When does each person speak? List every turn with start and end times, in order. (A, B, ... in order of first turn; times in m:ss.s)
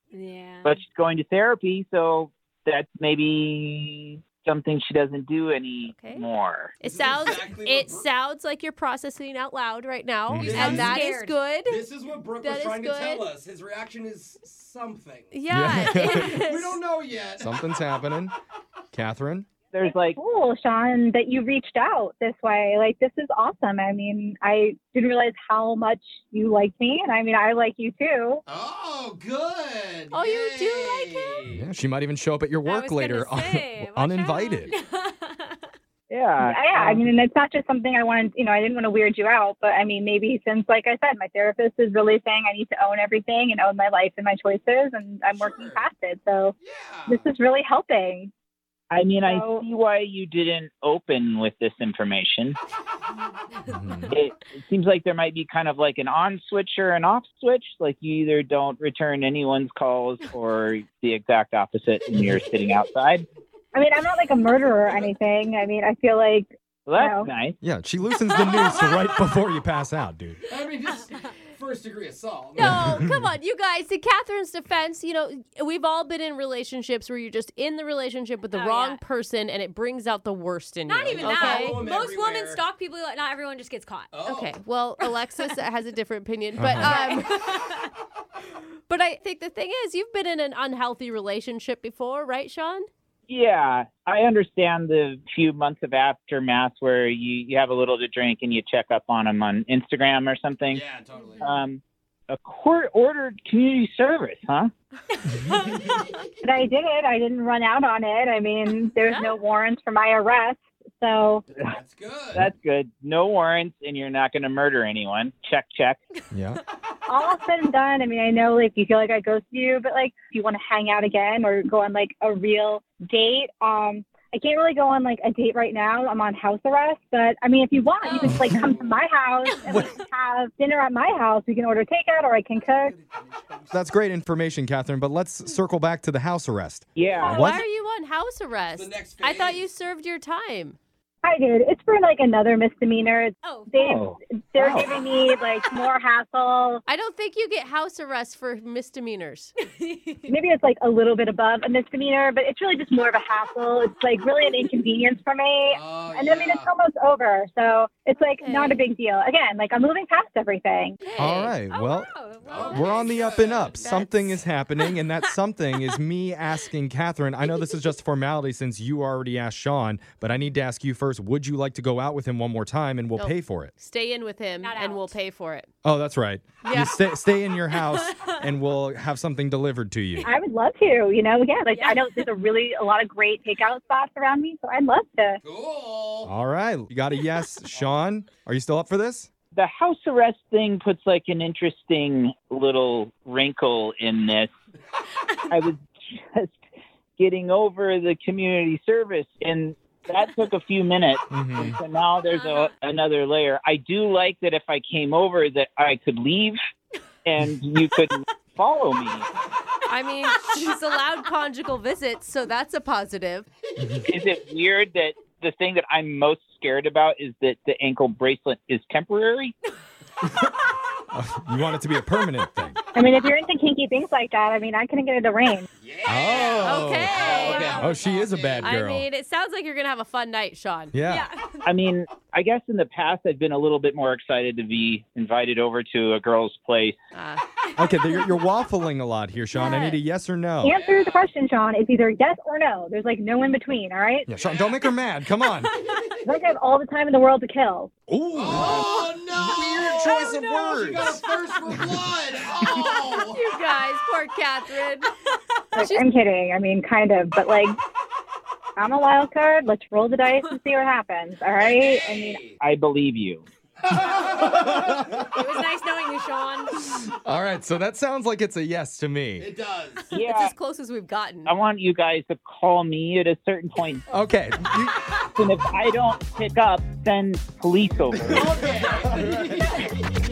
0:00.1-0:00.8 A
0:00.6-0:06.8 B
0:05.9-0:06.2 C
0:06.8-0:11.8 C
0:06.8-0:08.1 D
0:10.3-0:10.9 E
0:10.4-0:11.4 A
0:10.4-0:11.0 D
0:11.6-0:15.4 D
0:12.4-0:13.3 C
0:15.3-0:16.8 C
0:15.5-0:16.4 E
0:15.9-0:17.7 D
0:17.4-0:18.3 E
0:18.9-0:19.5 E
0:19.7-0:20.2 B
0:19.8-0:28.4 F
0:28.5-0:31.7 D
0:30.1-0:31.4 C
0:31.5-0:34.7 E
0:32.6-0:35.7 A
0:36.1-0:37.0 B
0:36.4-0:46.6 F
0:45.3-0:45.9 D
0:46.6-0:47.3 D
0:47.1-0:48.3 F
0:48.9-0:52.6 B
0:49.2-0:49.6 F
0:53.7-0:54.1 E
0:54.1-1:03.3 B
1:03.7-1:07.3 F
1:06.9-1:07.6 B
1:07.6-1:10.4 E
1:08.4-1:09.1 D
1:10.5-1:13.0 D
1:12.6-1:21.8 C
1:12.6-1:13.3 E
1:18.5-1:19.0 A
1:20.9-1:24.1 A
1:21.1-1:22.6 D
1:24.1-1:24.6 D
1:24.2-1:27.4 C
1:26.6-1:27.1 E
1:26.8-1:27.9 A
1:28.9-1:32.9 C
1:33.3-1:40.9 B
1:40.7-1:41.6 D
1:41.2-1:41.5 A
1:41.4-1:44.7 B
1:45.5-1:46.1 A
1:46.4-1:51.4 F
1:49.1-1:49.4 C
1:51.6-1:52.5 D
1:52.3-1:56.0 B
1:56.3-1:56.6 E
1:57.1-2:12.9 F
2:08.0-2:09.0 D
2:12.6-2:13.9 D
2:13.7-2:17.6 E
2:17.0-2:17.5 B
2:17.1-2:17.4 D
2:17.3-2:20.8 C
2:18.7-2:19.7 D
2:21.2-2:26.8 F
2:23.4-2:24.0 A
2:23.8-2:24.9 B
2:25.3-2:25.9 A
2:26.9-2:29.5 C
2:29.6-2:30.4 A
2:30.3-2:41.0 F
2:35.7-2:36.7 D
2:38.4-2:38.8 C
2:41.0-2:43.0 A
2:41.2-2:53.7 E
2:42.4-2:43.8 D
2:43.8-2:44.1 C
2:43.8-2:44.2 A
2:44.8-2:45.1 A
2:53.2-2:55.7 C
2:54.6-2:55.2 A
2:55.8-3:00.3 E
2:56.6-2:56.9 C
2:57.8-2:58.4 A
3:00.3-3:05.4 F
3:01.7-3:02.3 A
3:05.4-3:06.3 D
3:06.2-3:09.3 E
3:09.5-3:14.5 B
3:15.3-3:15.6 A
3:15.5-3:16.6 B
3:17.2-3:26.6 B
3:21.3-3:21.8 E
3:22.3-3:22.7 A
3:27.3-3:29.3 B
3:29.9-3:33.5 C
3:33.8-3:34.0 E
3:34.1-3:39.5 B
3:40.2-3:40.5 E
3:41.1-3:42.8 E
3:43.0-3:45.7 F
3:45.8-3:48.7 D
3:46.1-3:49.1 E
3:46.6-3:47.9 C
3:47.2-3:47.9 A
3:48.6-3:51.0 C
3:50.9-3:51.3 E
3:51.0-3:51.8 A
3:51.6-3:57.0 B
3:57.1-3:57.4 C
3:57.6-3:58.3 A
3:57.8-4:00.8 E
3:59.6-4:00.0 C
4:00.6-4:04.3 F
4:00.7-4:01.3 D
4:04.3-4:05.7 E
4:04.3-4:04.9 D
4:06.2-4:07.9 F
4:08.1-4:11.9 E
4:08.3-4:13.4 D
4:13.2-4:15.1 C
4:15.8-4:17.8 F
4:15.8-4:16.0 C
4:18.8-4:22.4 F
4:20.3-4:20.6 A
4:21.5-4:22.6 D
4:22.6-4:23.4 B
4:23.8-4:25.1 D
4:24.4-4:25.5 E
4:25.3-4:26.8 A
4:26.9-4:29.5 E
4:29.4-4:30.1 D
4:30.1-4:31.5 C
4:30.1-4:30.6 B
4:31.5-4:34.0 B
4:34.1-4:35.0 E
4:35.4-4:38.5 B
4:38.1-4:39.6 E
4:38.3-4:39.9 D